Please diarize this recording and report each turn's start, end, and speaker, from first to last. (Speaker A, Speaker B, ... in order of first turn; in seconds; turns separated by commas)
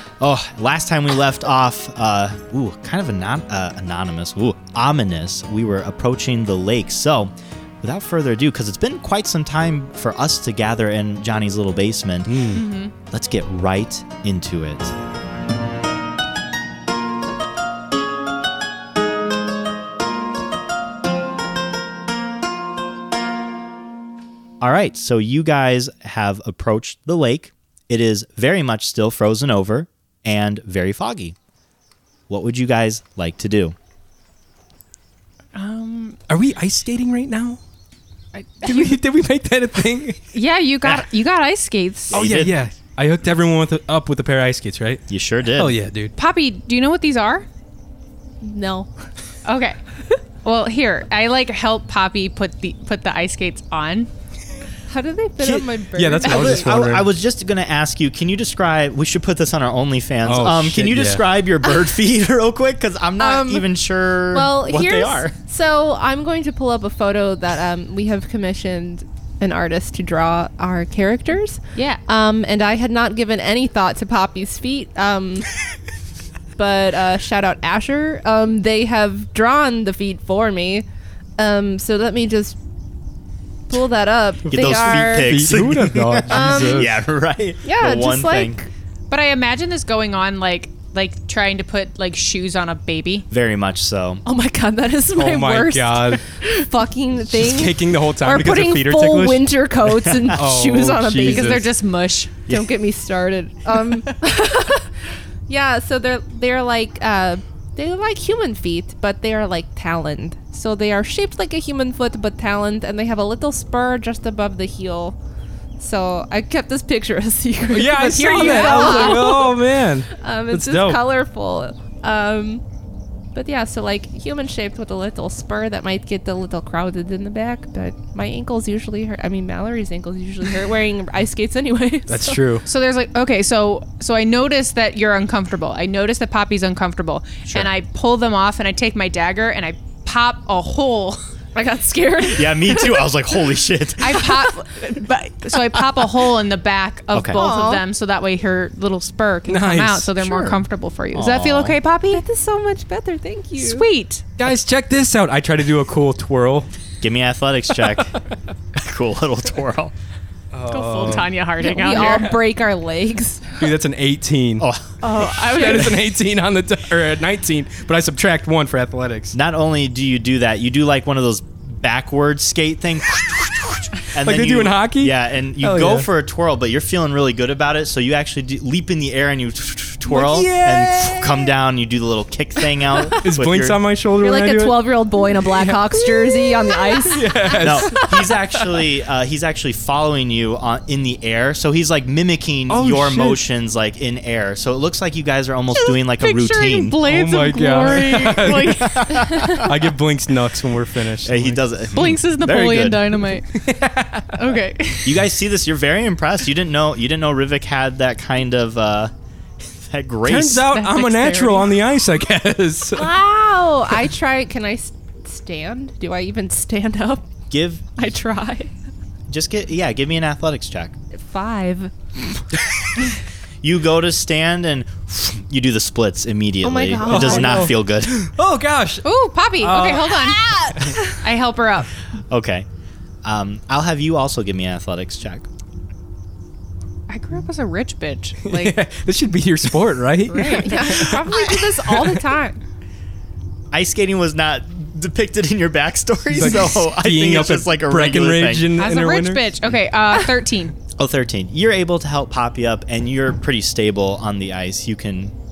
Speaker A: 0.2-14.9, Speaker B: 12.3-12.6, Speaker C: 12.5-12.9, Speaker A: 24.6-31.4, Speaker A: 32.3-33.7, Speaker C: 35.5-36.2, Speaker B: 36.3-37.6, Speaker C: 38.3-39.0, Speaker B: 38.6-40.2, Speaker C: 40.3-42.2, Speaker A: 42.1-42.6, Speaker B: 42.1-46.1, Speaker A: 45.1-45.8, Speaker C: 46.1-47.5, Speaker D: 48.4-48.9, Speaker C: 49.4-49.8, Speaker C: 50.4-54.1, Speaker D: 54.9-56.7, Speaker B: 55.4-57.1, Speaker A: 56.2-65.3, Speaker B: 60.2-61.2, Speaker D: 63.2-63.7, Speaker D: 64.3-75.5, Speaker C: 71.7-72.0, Speaker D: 76.5-80.8, Speaker D: 81.4-82.6, Speaker D: 83.7-85.3, Speaker B: 84.4-87.0, Speaker A: 84.5-88.6, Speaker D: 86.3-86.9, Speaker D: 87.6-88.7, Speaker C: 89.1-93.2, Speaker A: 93.3-94.2, Speaker D: 94.2-101.7, Speaker B: 95.1-96.2, Speaker B: 97.3-99.7, Speaker A: 100.0-100.3, Speaker B: 100.2-101.7, Speaker C: 101.2-102.3, Speaker D: 102.5-104.9, Speaker D: 105.5-115.2, Speaker D: 115.8-122.6, Speaker B: 117.7-121.1, Speaker C: 118.3-119.2, Speaker D: 123.3-132.4, Speaker B: 132.1-132.6, Speaker C: 132.7-141.2, Speaker D: 141.5-143.1, Speaker A: 142.3-144.3, Speaker C: 144.0-152.2, Speaker D: 144.2-144.4, Speaker A: 147.1-147.4, Speaker D: 147.3-147.8, Speaker B: 149.5-150.2, Speaker A: 150.2-150.6, Speaker A: 151.1-151.8, Speaker D: 152.1-153.9, Speaker C: 153.6-154.2, Speaker B: 154.4-156.7, Speaker A: 157.0-158.1, Speaker A: 158.7-159.9, Speaker B: 160.5-161.3, Speaker C: 160.7-162.3, Speaker D: 161.6-163.6, Speaker B: 161.9-162.3, Speaker B: 163.6-164.7, Speaker A: 164.6-165.0, Speaker C: 165.0-166.0, Speaker B: 165.2-169.3, Speaker A: 169.3-183.8, Speaker B: 174.1-176.1, Speaker B: 180.1-181.5, Speaker B: 183.1-188.6, Speaker D: 184.2-187.9, Speaker A: 187.6-197.0, Speaker B: 192.7-193.4, Speaker C: 195.7-199.1, Speaker B: 197.0-202.1, Speaker A: 198.0-199.9, Speaker A: 201.2-203.1, Speaker C: 201.9-203.5, Speaker B: 203.5-204.4, Speaker C: 204.3-205.2, Speaker A: 205.0-209.1, Speaker A: 209.6-210.7, Speaker B: 210.2-213.1, Speaker C: 210.7-211.7, Speaker D: 212.9-217.3, Speaker A: 217.5-217.9, Speaker D: 217.9-218.7, Speaker A: 219.3-220.9, Speaker D: 221.1-221.9, Speaker A: 223.6-228.2, Speaker D: 226.6-227.7, Speaker B: 227.0-229.1, Speaker C: 229.0-230.4, Speaker B: 229.6-230.2, Speaker D: 229.9-231.2, Speaker C: 231.1-231.9, Speaker A: 232.3-232.7, Speaker A: 233.2-235.5, Speaker C: 237.1-238.8, Speaker B: 238.4-242.2, Speaker C: 240.3-240.8, Speaker D: 240.4-242.6, Speaker A: 243.7-248.7, Speaker B: 246.3-249.5, Speaker C: 248.8-250.8, Speaker A: 251.0-255.3